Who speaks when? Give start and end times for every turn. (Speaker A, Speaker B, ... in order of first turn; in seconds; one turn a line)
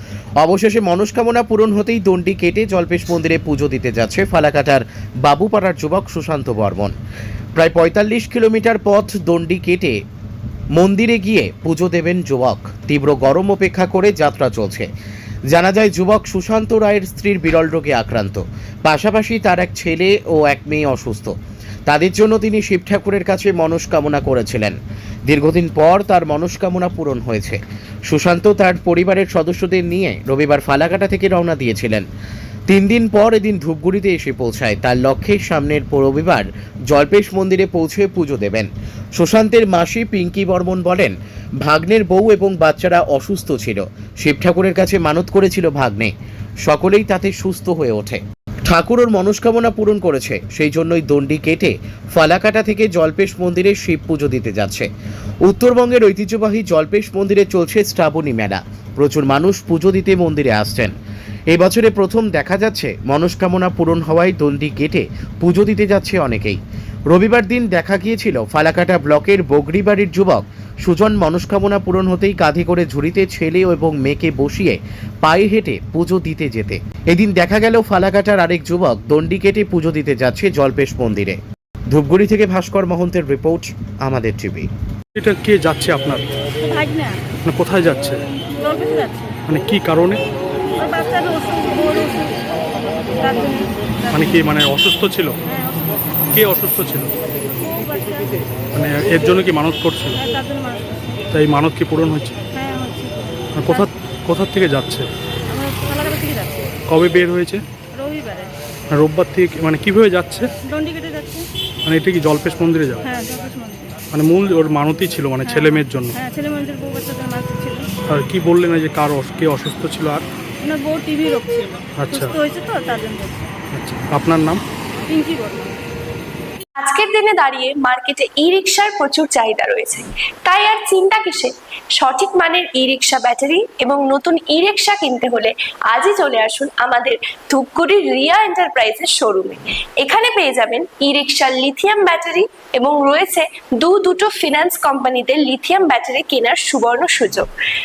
Speaker A: 0.4-6.9
Speaker A: 7.5-10.0
Speaker A: 10.8-14.9
Speaker A: 15.5-21.4
Speaker A: 21.9-32.1
Speaker A: 32.7-46.1
Speaker A: 46.6-54.9
Speaker A: 55.5-60.9
Speaker A: 61.5-66.6
Speaker A: 67.1-84.7
Speaker B: 85.2-86.3
Speaker C: 86.6-87.3
Speaker B: 87.4-88.2
Speaker C: 88.6-89.4
Speaker B: 89.5-90.2
Speaker C: 90.7-92.5
Speaker C: 93.2-94.3
Speaker B: 94.1-95.4
Speaker C: 95.5-96.3
Speaker B: 96.3-97.1
Speaker C: 97.5-98.5
Speaker B: 98.7-100.2
Speaker C: 100.2-101.2
Speaker B: 101.3-102.4
Speaker C: 102.5-103.9
Speaker B: 103.6-105.1
Speaker C: 105.5-106.8
Speaker B: 106.9-107.6
Speaker C: 108.0-108.5
Speaker B: 108.9-110.5
Speaker C: 110.6-111.5
Speaker B: 111.9-113.1
Speaker C: 113.1-114.0
Speaker B: 114.1-116.2
Speaker C: 115.5-117.9
Speaker B: 118.1-120.2
Speaker C: 120.6-123.5
Speaker B: 122.0-122.4
Speaker B: 123.7-124.6
Speaker C: 125.1-125.8
Speaker D: 126.8-147.5